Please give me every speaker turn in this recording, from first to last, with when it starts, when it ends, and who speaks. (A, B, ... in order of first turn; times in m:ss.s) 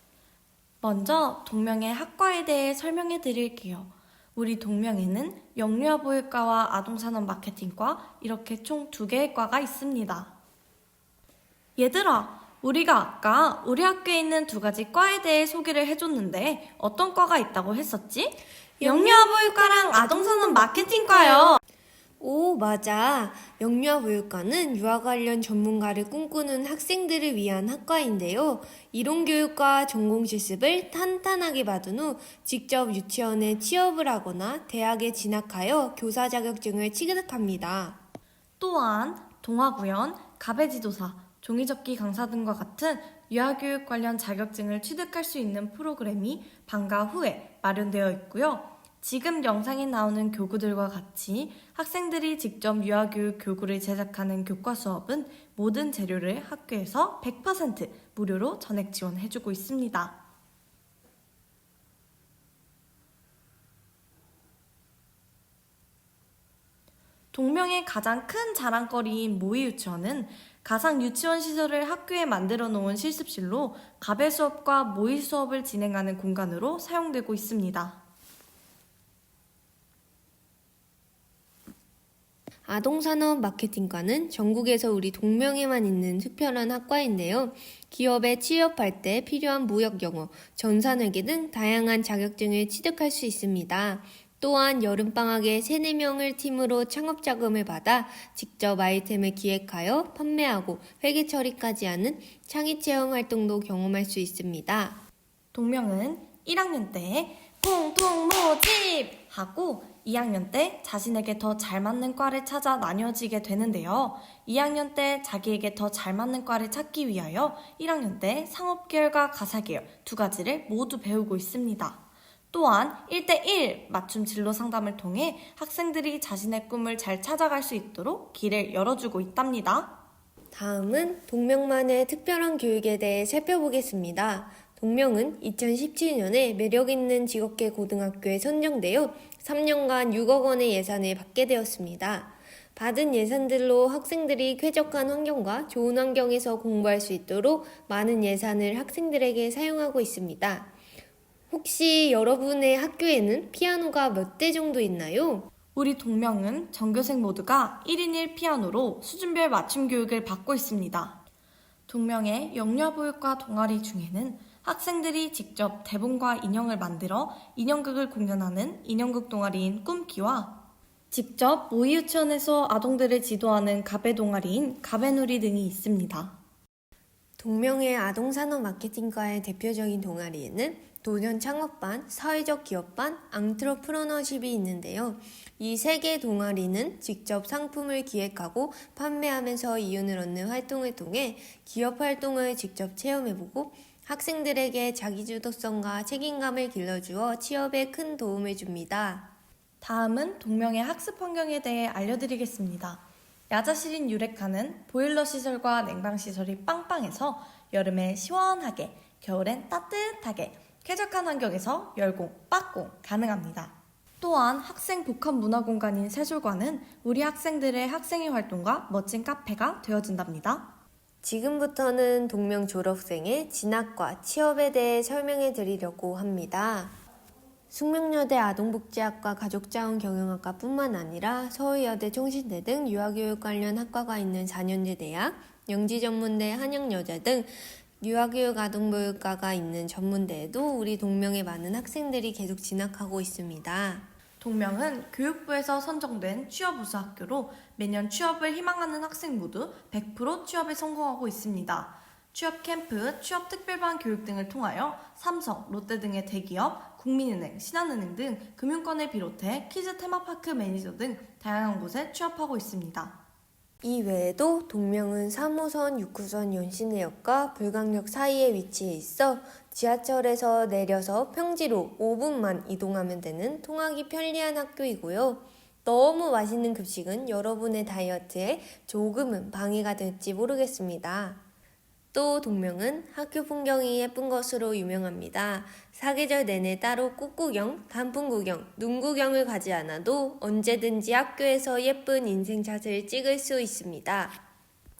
0:00.8-0:10.3 A
0:11.8-0:21.6 A
0:18.8-0:21.6 B
0:22.2-0:38.0 B
0:38.6-1:00.2 A
1:07.3-1:18.0 A
1:22.6-1:45.0 B
1:45.5-2:09.9 A
2:10.5-2:30.7 B
2:31.5-2:35.5 B
2:35.7-2:41.2 A
2:41.9-2:56.3 A
2:57.4-3:19.3 B
3:19.8-3:40.7 A
3:41.2-3:46.9 B
3:47.7-4:04.0 B
4:04.4-4:23.2 A
4:23.8-4:41.4 B
4:42.1-4:54.4 B